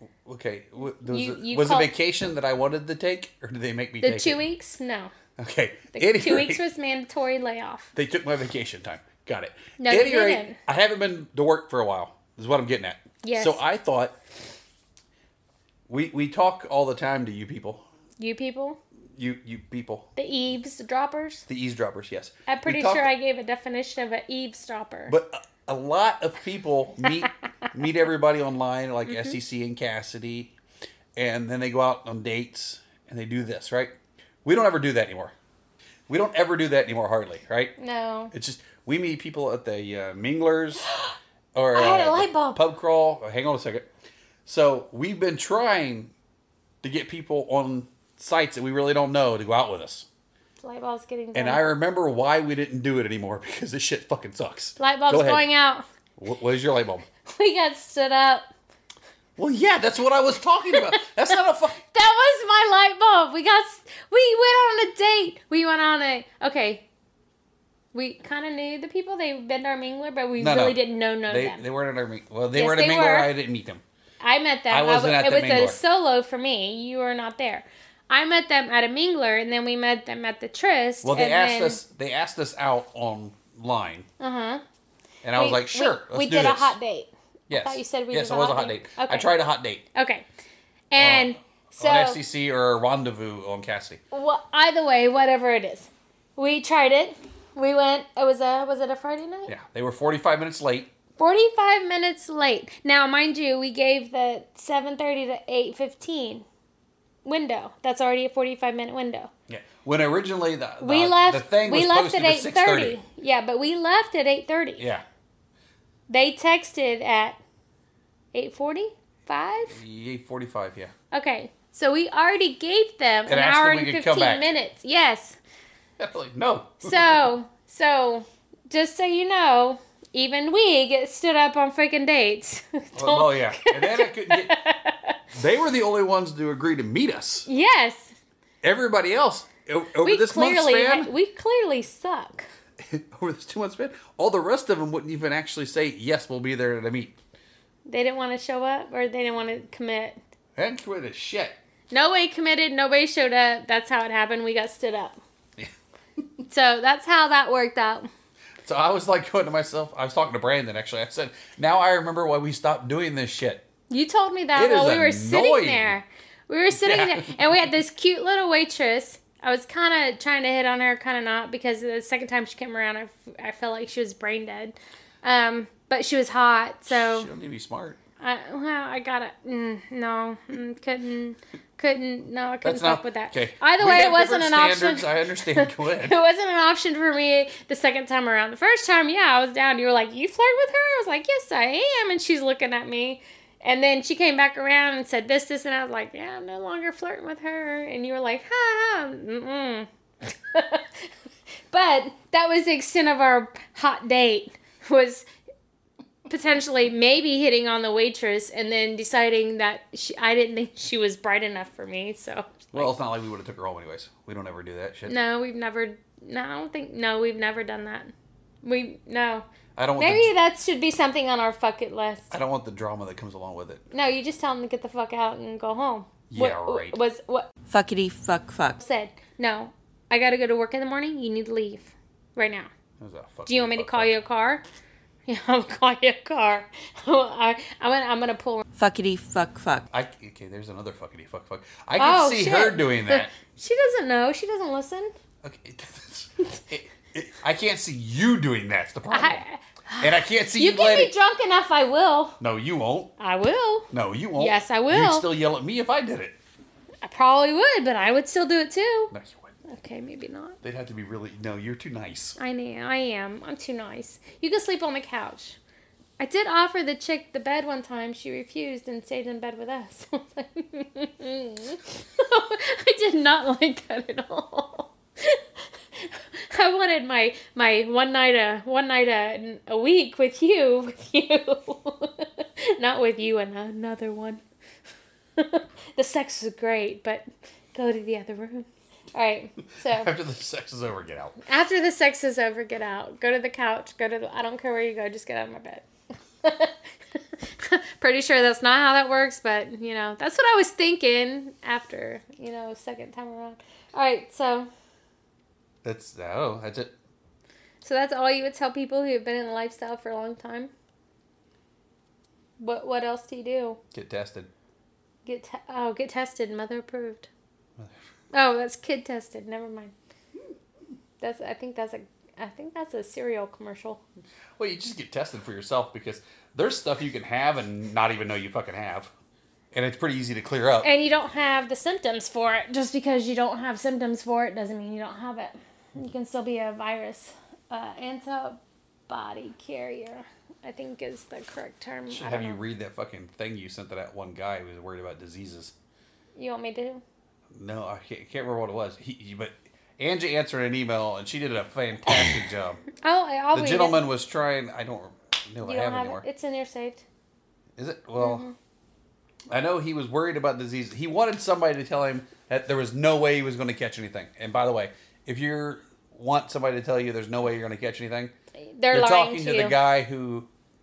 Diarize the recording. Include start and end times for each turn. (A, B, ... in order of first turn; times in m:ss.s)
0:00.2-0:04.4 A
0:01.0-0:01.9 B
0:04.0-0:05.1 B
0:05.4-0:06.6 A
0:05.9-0:07.9 B
0:08.0-0:14.2 A
0:09.8-0:10.6 B
0:13.2-0:13.6 B
0:15.9-0:17.8 A
0:18.2-0:18.8 B
0:19.2-0:20.1 A
0:20.2-0:21.5 B
0:21.5-0:23.1 A
0:22.5-0:25.1 B
0:25.1-0:30.6 A
0:29.1-0:29.4 B
0:31.2-0:35.3 A
0:36.1-0:37.7 A
0:37.8-0:38.3 B
0:38.3-0:40.9 A
0:40.8-0:41.2 B
0:41.6-0:43.9 A
0:41.7-0:42.6 B
0:44.5-0:46.1 A
0:46.8-0:50.1 A
0:50.6-0:51.6 B
0:51.3-0:55.5 A
0:54.8-0:55.9 B
0:56.2-0:57.1 A
0:57.3-0:58.5 B
0:59.4-1:01.8 A
1:00.7-1:01.0 B
1:01.9-1:06.8 B
1:07.9-1:11.6 B
1:10.4-1:13.8 A
1:12.5-1:13.3 B
1:14.2-1:21.8 B
1:14.7-1:15.8 A
1:21.0-1:24.1 A
1:24.2-1:24.6 B
1:25.2-1:26.8 A
1:25.4-1:29.3 B
1:27.5-1:29.8 A
1:29.9-1:30.2 B
1:30.9-1:32.2 B
1:31.0-1:34.0 A
1:34.1-1:39.5 B
1:39.5-1:40.9 A
1:41.2-1:46.4 B
1:47.2-1:49.3 B
1:49.5-1:53.0 A
1:50.8-1:54.9 B
1:54.8-1:55.0 A
1:56.1-1:57.4 B
1:58.3-1:59.8 B
1:59.7-2:00.9 A
2:01.1-2:05.4 B
2:03.3-2:04.5 A
2:06.0-2:07.3 A
2:06.8-2:15.2 B
2:13.0-2:14.6 A
2:15.3-2:17.5 A
2:17.5-2:18.2 B
2:18.6-2:21.1 A
2:20.0-2:22.5 B
2:22.8-2:27.2 A
2:27.9-2:30.2 B
2:30.6-2:31.6 A
2:31.9-2:35.2 B
2:36.5-2:38.1 B
2:38.6-2:43.7 A
2:43.9-2:57.3 B
2:44.6-2:46.0 A
2:46.7-2:47.4 A
2:56.9-2:58.0 A
2:58.2-3:21.1 B
3:02.6-3:06.2 A
3:21.7-3:25.3 B
3:26.3-3:32.9 B
3:32.7-3:35.2 A
3:35.1-3:39.5 B
3:39.8-3:40.3 A
3:40.0-3:42.3 B
3:42.3-3:43.8 A
3:43.9-3:47.5 B
3:46.3-3:47.0 A
3:47.7-3:48.8 C
3:48.8-3:52.7 B
3:53.0-3:54.2 A
3:53.5-3:54.6 B
3:55.3-3:58.6 B
3:58.8-3:59.9 C
3:59.9-4:03.3 A
4:02.0-4:05.1 B
4:05.4-4:09.4 A
4:09.1-4:12.4 B
4:10.0-4:11.1 A
4:12.4-4:13.1 A
4:13.2-4:15.3 B
4:13.9-4:16.4 A
4:17.0-4:19.1 B
4:19.1-4:19.6 A
4:19.7-4:20.6 B
4:20.6-4:22.4 A
4:22.4-4:25.6 B
4:26.2-4:44.4 B
4:45.4-4:50.1 B
4:49.8-4:51.4 A
4:51.5-4:55.8 B
4:56.4-5:04.7 B
5:05.8-5:06.9 A
5:07.8-5:10.7 B
5:12.6-5:13.8 B
5:13.9-5:14.5 A
5:15.2-5:17.3 B
5:18.3-5:19.9 B
5:21.2-5:24.0 B
5:24.6-5:29.1 A
5:29.7-5:30.9 A
5:30.8-5:42.6 B
5:42.1-5:45.7 A
5:46.4-5:47.0 B
5:47.5-5:52.8 A
5:53.0-5:54.0 B
5:53.5-5:56.2 A
5:55.6-5:57.0 B
5:57.8-5:58.5 A
5:58.2-5:58.6 B
5:59.5-6:08.3 A
6:08.6-6:09.8 B
6:08.9-6:10.5 A